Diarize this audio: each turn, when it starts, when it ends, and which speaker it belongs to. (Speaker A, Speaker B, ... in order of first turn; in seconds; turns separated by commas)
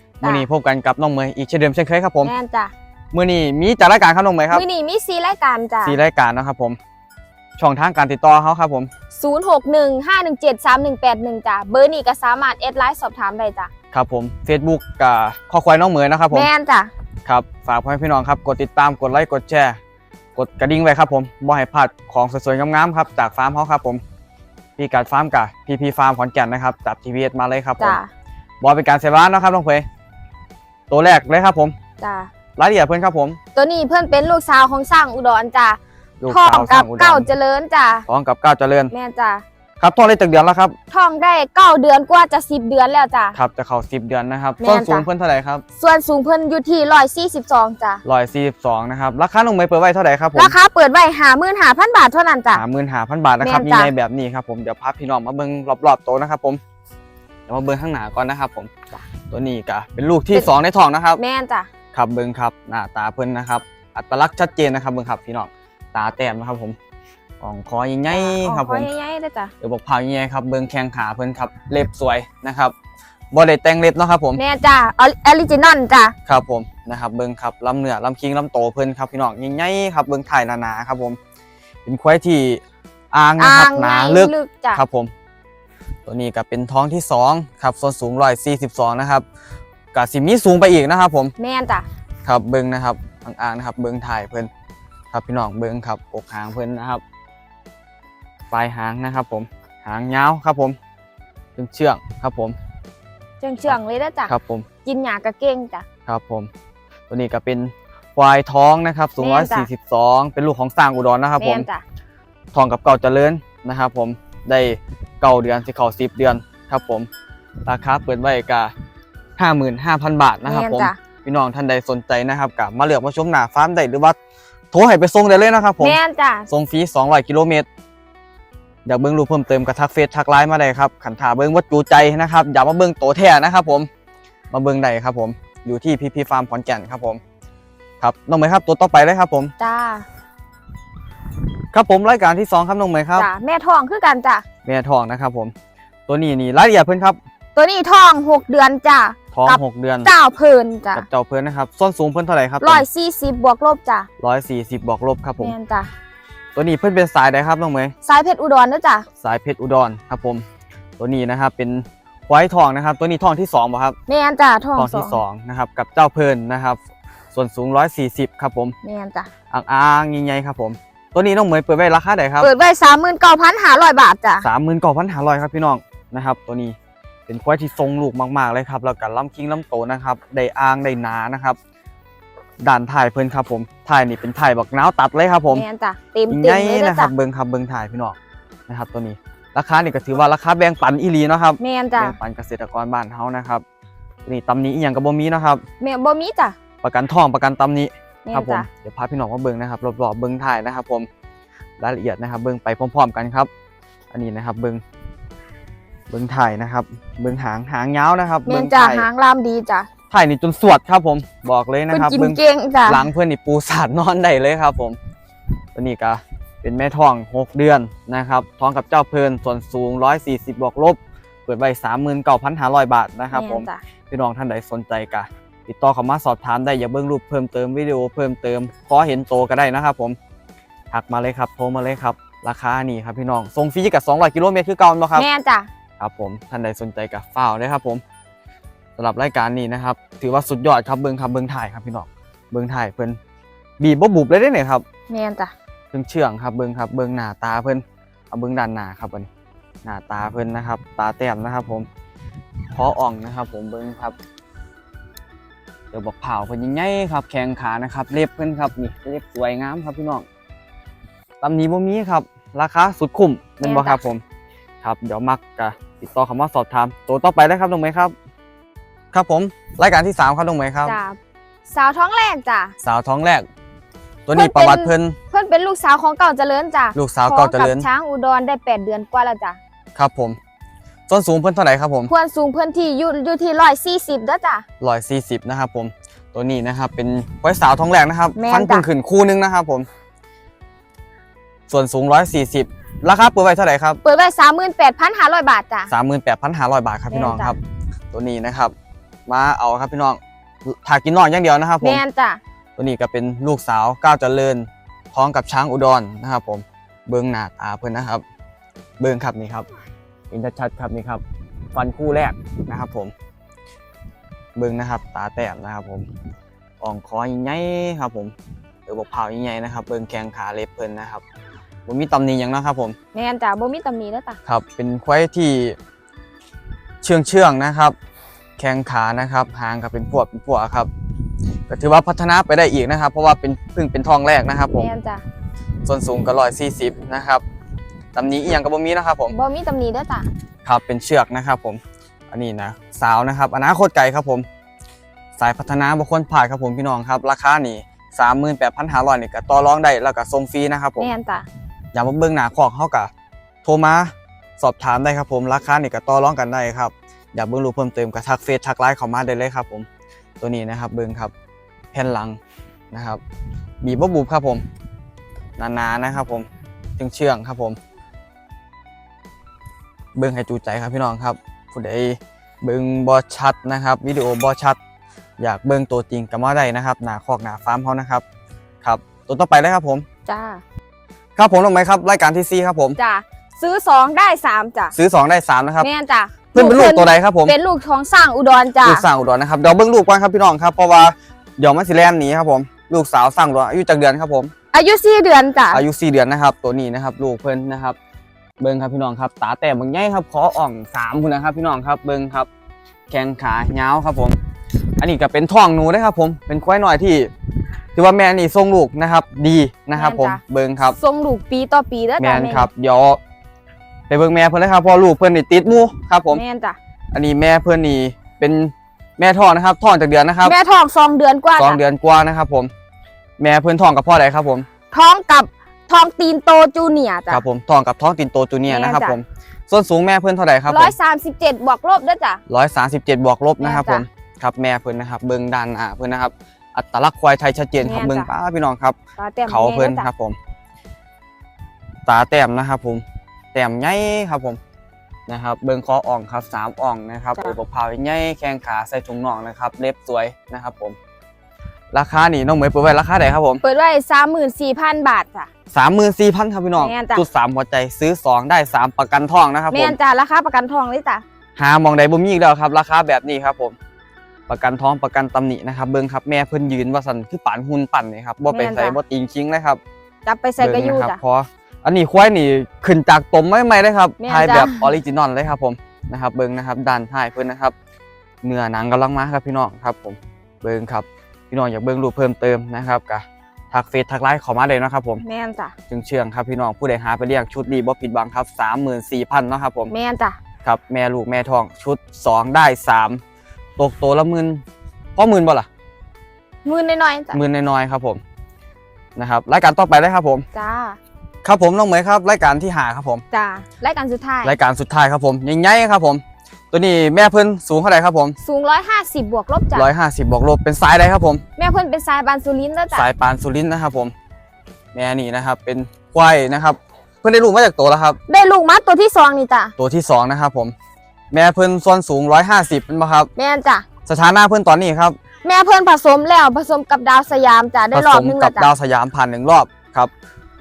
Speaker A: 0.2-0.5, Speaker B: 0.2-2.3, Speaker A: 2.2-2.7, Speaker B: 3.1-4.6, Speaker A: 4.5-6.0, Speaker B: 5.8-6.8, Speaker B: 7.6-8.9, Speaker A: 9.1-13.7, Speaker B: 13.9-16.5, Speaker A: 16.3-16.9, Speaker B: 17.2-19.8, Speaker B: 20.4-24.0, Speaker B: 24.8-28.0, Speaker A: 27.8-28.1, Speaker B: 28.6-29.8, Speaker B: 30.9-31.8, Speaker A: 32.0-32.3, Speaker B: 32.6-33.4, Speaker A: 33.5-38.0, Speaker B: 36.2-37.3, Speaker B: 38.1-38.9, Speaker A: 38.9-39.4, Speaker B: 39.8-40.8, Speaker A: 40.9-43.4, Speaker B: 43.3-45.6, Speaker A: 44.6-45.0, Speaker A: 45.8-48.0, Speaker B: 48.0-50.5, Speaker A: 50.3-52.6, Speaker B: 52.5-56.6, Speaker A: 53.4-53.9, Speaker B: 57.5-58.7, Speaker B: 59.3-61.2, Speaker A: 61.2-61.7, Speaker B: 61.9-66.8, Speaker B: 67.4-68.9, Speaker A: 68.1-69.5, Speaker B: 69.6-72.7, Speaker B: 73.3-74.4, Speaker A: 74.4-76.1, Speaker B: 76.2-81.2, Speaker B: 81.8-82.6, Speaker B: 83.1-85.1, Speaker A: 83.4-84.8, Speaker B: 86.1-89.2, Speaker B: 89.9-91.3, Speaker A: 91.4-91.9, Speaker B: 92.2-94.5, Speaker B: 95.1-97.0, Speaker B: 98.5-100.8, Speaker B: 101.6-102.6, Speaker A: 103.4-104.3, Speaker B: 103.6-104.7, Speaker A: 104.8-105.8, Speaker B: 106.1-106.5, Speaker B: 107.1-111.7, Speaker A: 109.2-109.7, Speaker A: 111.4-111.8, Speaker B: 112.5-117.1, Speaker B: 117.7-118.7, Speaker B: 119.4-124.2, Speaker A: 120.5-121.0, Speaker B: 124.7-127.7, Speaker A: 125.8-126.5, Speaker B: 128.8-133.9, Speaker B: 134.5-137.2, Speaker B: 138.0-139.5, Speaker A: 139.6-140.0, Speaker B: 141.7-143.3, Speaker A: 143.2-144.4, Speaker B: 144.7-145.5, Speaker B: 146.1-147.2, Speaker A: 147.5-151.1, Speaker B: 149.3-150.1, Speaker B: 150.9-152.8, Speaker A: 152.6-154.1, Speaker B: 154.2-155.5, Speaker A: 155.4-155.9, Speaker B: 156.5-157.9, Speaker A: 158.0-159.1, Speaker B: 159.2-160.4, Speaker B: 161.0-164.0, Speaker A: 164.1-165.2, Speaker B: 164.8-166.8, Speaker B: 167.3-168.8, Speaker A: 168.8-169.3, Speaker B: 169.5-172.5, Speaker A: 172.4-174.4, Speaker B: 174.4-176.8, Speaker B: 177.3-181.6, Speaker B: 182.6-185.7, Speaker A: 185.5-187.1, Speaker B: 186.3-188.2, Speaker B: 188.7-193.6, Speaker A: 191.6-192.2, Speaker B: 194.2-195.6, Speaker A: 195.8-196.6, Speaker B: 196.8-201.1, Speaker A: 198.2-198.7, Speaker B: 201.8-203.5, Speaker B: 204.1-204.8, Speaker B: 206.1-209.1, Speaker A: 208.5-209.9, Speaker B: 210.1-215.0, Speaker A: 211.9-213.1, Speaker B: 215.8-230.2, Speaker A: 223.3-223.8, Speaker B: 230.9-235.3, Speaker A: 235.2-235.7, Speaker B: 236.0-238.0, Speaker B: 239.0-243.2, Speaker B: 243.8-244.8, Speaker A: 245.1-245.5, Speaker B: 245.9-249.3, Speaker B: 249.8-251.9, Speaker B: 252.7-254.2, Speaker B: 255.9-260.2, Speaker B: 261.4-264.2, Speaker A: 263.6-264.0, Speaker B: 264.8-268.1, Speaker B: 269.1-271.0, Speaker A: 270.8-271.2, Speaker A: 271.7-272.7, Speaker B: 272.8-273.4, Speaker B: 274.3-275.2, Speaker A: 274.3-279.6, Speaker B: 276.9-277.9, Speaker B: 279.9-280.4, Speaker B: 281.1-282.1, Speaker A: 282.1-284.6, Speaker B: 284.8-289.9, Speaker A: 288.4-288.9, Speaker B: 291.7-294.0, Speaker A: 294.0-295.9, Speaker B: 295.9-297.6, Speaker A: 297.1-297.5, Speaker B: 298.1-298.7, Speaker B: 299.3-302.0, Speaker A: 301.8-302.4, Speaker B: 302.8-308.2, Speaker B: 309.0-309.6, Speaker B: 310.3-311.2, Speaker B: 311.7-313.1, Speaker B: 314.5-316.1, Speaker B: 316.8-318.3, Speaker B: 318.9-321.2, Speaker B: 321.9-322.9, Speaker A: 323.1-324.4, Speaker B: 324.4-325.8, Speaker B: 327.0-327.9, Speaker B: 328.6-330.9, Speaker B: 331.7-334.9, Speaker A: 334.7-335.2, Speaker B: 335.8-337.4, Speaker B: 338.1-339.3, Speaker A: 339.3-340.3, Speaker B: 340.6-344.4, Speaker B: 345.4-351.1, Speaker A: 351.0-351.4, Speaker B: 351.9-353.1, Speaker B: 353.6-359.9, Speaker B: 360.4-361.3, Speaker B: 361.9-362.4, Speaker B: 362.9-363.2, Speaker B: 363.8-364.6, Speaker B: 365.6-367.8, Speaker B: 370.1-374.8, Speaker B: 375.4-378.2, Speaker B: 378.8-380.0, Speaker A: 380.2-380.6, Speaker B: 381.4-383.0, Speaker A: 383.0-384.9, Speaker B: 384.9-385.9, Speaker A: 385.8-389.1, Speaker B: 386.5-387.5, Speaker B: 388.8-394.5, Speaker A: 394.7-395.8, Speaker B: 395.7-397.9, Speaker B: 398.6-402.5, Speaker B: 403.1-404.4, Speaker B: 405.0-407.3, Speaker B: 407.9-411.0, Speaker A: 409.9-412.7, Speaker B: 412.2-413.2, Speaker B: 414.1-416.4, Speaker A: 416.3-416.8, Speaker B: 417.1-420.6, Speaker A: 420.4-421.8, Speaker B: 421.6-422.7, Speaker B: 423.4-424.7, Speaker A: 424.9-427.4, Speaker B: 427.3-430.9, Speaker A: 428.7-429.2, Speaker A: 430.7-432.4, Speaker B: 432.5-439.0, Speaker A: 433.6-434.0, Speaker A: 437.8-438.3, Speaker A: 439.2-440.1, Speaker B: 439.5-440.4, Speaker B: 442.1-444.6, Speaker B: 445.3-451.0, Speaker B: 451.9-453.6, Speaker A: 453.6-455.5, Speaker B: 455.7-459.9, Speaker A: 456.8-457.2, Speaker A: 459.7-461.2, Speaker B: 461.6-463.8, Speaker B: 464.5-469.8, Speaker A: 468.5-469.0, Speaker A: 470.2-471.2, Speaker B: 470.6-477.7, Speaker A: 474.2-474.9, Speaker B: 478.4-485.2, Speaker A: 485.2-485.7, Speaker B: 485.9-489.9, Speaker A: 489.9-490.4, Speaker B: 490.6-493.2, Speaker B: 493.8-494.6, Speaker B: 495.1-495.7, Speaker A: 496.6-497.4, Speaker B: 497.3-498.2, Speaker B: 499.1-500.4, Speaker A: 500.5-501.0, Speaker B: 501.4-503.2, Speaker A: 503.3-504.6, Speaker B: 504.4-508.4, Speaker A: 508.4-509.9, Speaker B: 509.7-511.4, Speaker A: 511.6-513.1, Speaker B: 512.9-514.1, Speaker B: 514.9-518.2, Speaker A: 518.3-519.7, Speaker B: 519.8-520.8, Speaker B: 521.3-523.3, Speaker A: 523.4-523.9, Speaker B: 524.0-525.2, Speaker A: 525.4-528.7, Speaker B: 527.9-530.1